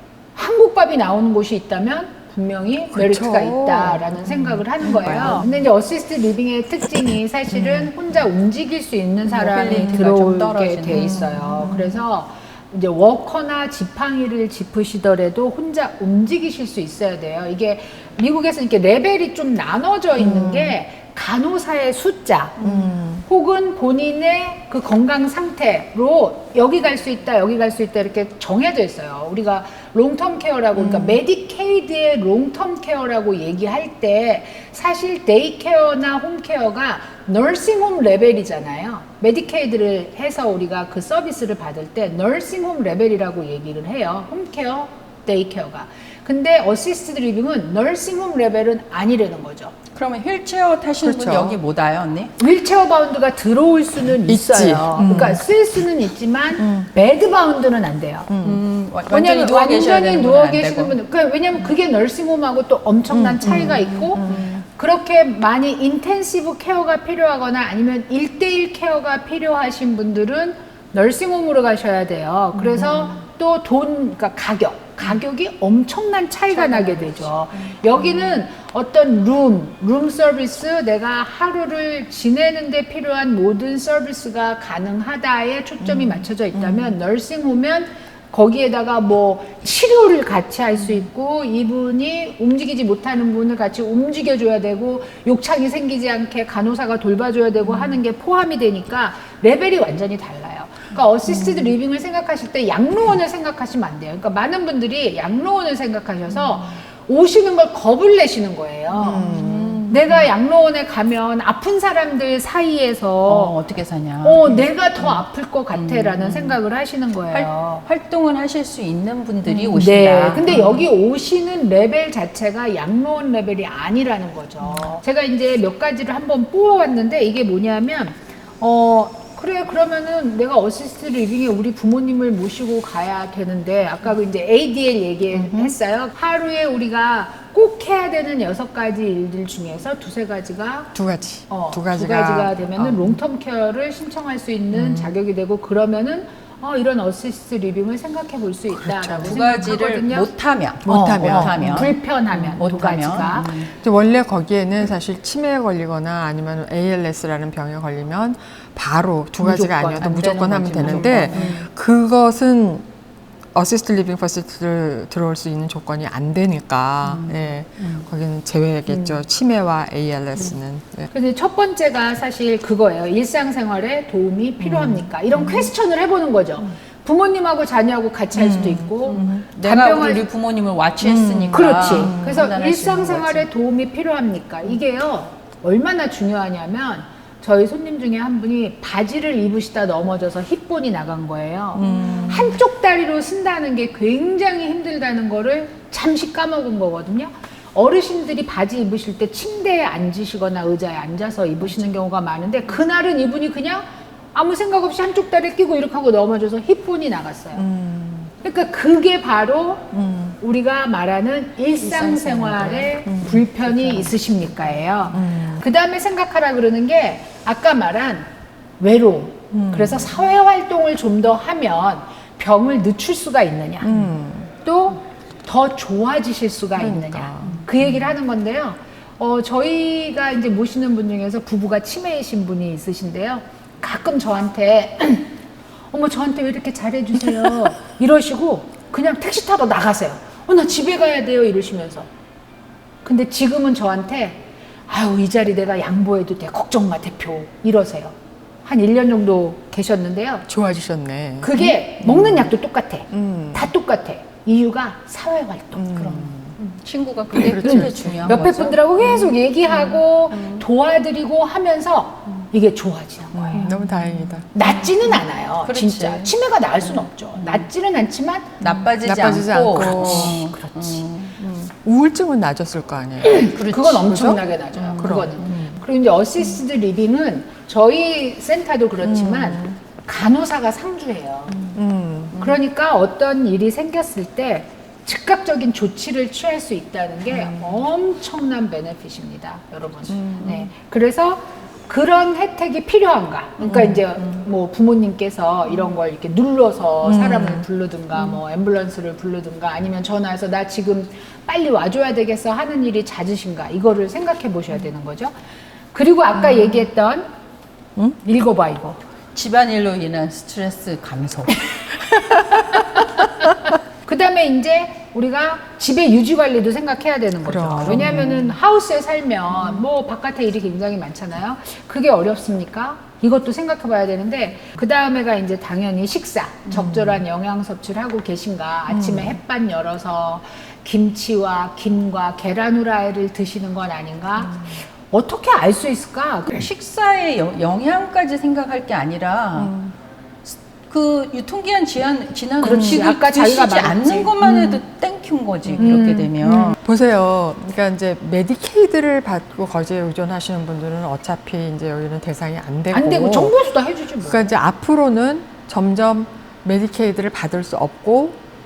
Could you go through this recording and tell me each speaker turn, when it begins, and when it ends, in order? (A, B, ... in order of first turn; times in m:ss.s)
0:00.3-0:22.6 A
0:02.9-0:05.6 B
0:07.5-0:07.9 B
0:09.2-0:11.9 C
0:09.7-0:10.0 B
0:20.2-0:20.7 B
0:22.6-0:23.2 B
0:23.2-0:49.7 A
0:30.8-0:31.2 B
0:49.9-0:52.3 C
0:51.0-0:51.6 B
0:52.4-0:58.3 A
0:54.2-0:55.4 B
0:56.6-0:56.9 B
0:58.3-0:58.6 B
0:58.4-1:00.9 C
0:59.1-1:49.3 A
1:03.1-1:04.5 B
1:04.2-1:04.6 C
1:16.5-1:18.2 C
1:25.8-1:27.0 B
1:49.0-1:49.8 B
1:49.0-1:50.3 C
1:49.9-1:53.6 A
1:53.2-1:56.6 C
1:54.2-1:57.8 A
1:57.3-2:00.8 C
1:59.4-2:20.9 A
2:15.3-2:15.7 B
2:20.9-2:23.2 B
2:21.5-2:30.3 A
2:24.7-2:25.1 B
2:28.7-2:29.5 B
2:29.2-2:33.7 C
2:30.8-2:31.8 B
2:30.8-2:33.6 A
2:33.1-2:42.8 B
2:39.4-2:41.6 A
2:40.1-2:41.6 C
2:43.5-2:51.1 B
2:47.0-2:47.4 C
2:48.9-2:49.2 A
2:51.1-3:00.2 A
2:54.6-2:55.1 B
2:58.3-2:58.9 B
2:59.0-3:03.5 C
3:01.0-3:02.4 B
3:01.5-3:27.6 A
3:11.8-3:12.6 B
3:11.8-3:12.3 C
3:27.5-3:28.3 B
3:28.4-3:38.3 A
3:29.9-3:30.4 B
3:31.8-3:34.1 C
3:33.0-3:33.5 B
3:35.1-3:35.6 B
3:38.8-3:44.0 A
3:39.5-3:40.1 B
3:43.8-3:44.5 B
3:44.6-3:55.3 A
3:46.8-3:47.7 B
3:55.9-4:02.1 A
4:03.0-4:10.5 A
4:10.5-4:12.5 B
4:11.4-4:16.3 A
4:13.1-4:13.7 B
4:15.7-4:16.6 B
4:16.6-4:20.6 C
4:17.3-4:18.5 B
4:17.6-4:23.7 A
4:23.3-4:24.5 B
4:23.5-4:23.8 C
4:24.5-4:28.6 A
4:24.6-4:26.3 C
4:27.4-4:27.6 C
4:28.6-4:31.4 C
4:29.0-4:30.4 B
4:29.7-4:31.0 A
4:31.4-4:33.5 B
4:33.2-4:41.7 A
4:33.5-4:34.4 C
4:34.1-4:34.4 B
4:34.9-4:35.2 C
4:35.0-4:35.8 B
4:39.0-4:39.8 B
4:41.7-4:42.4 B
4:42.4-5:05.3 A
4:47.3-4:47.8 B
4:50.2-4:50.6 C
4:53.7-4:54.0 B
4:57.0-4:57.6 B
5:05.9-5:07.2 A
5:08.1-5:09.0 A
5:09.3-5:12.0 C
5:12.5-5:12.8 B
5:14.0-5:36.6 A
5:17.4-5:18.5 B
5:17.9-5:18.3 C
5:26.7-5:27.2 B
5:28.9-5:29.4 B
5:36.5-5:39.8 C
5:40.5-5:46.8 C
5:42.6-5:44.7 A
5:42.6-5:43.0 B
5:44.4-5:44.7 B
5:45.7-5:53.5 B
5:45.8-5:46.7 A
5:52.9-5:54.5 A
5:54.2-5:58.4 B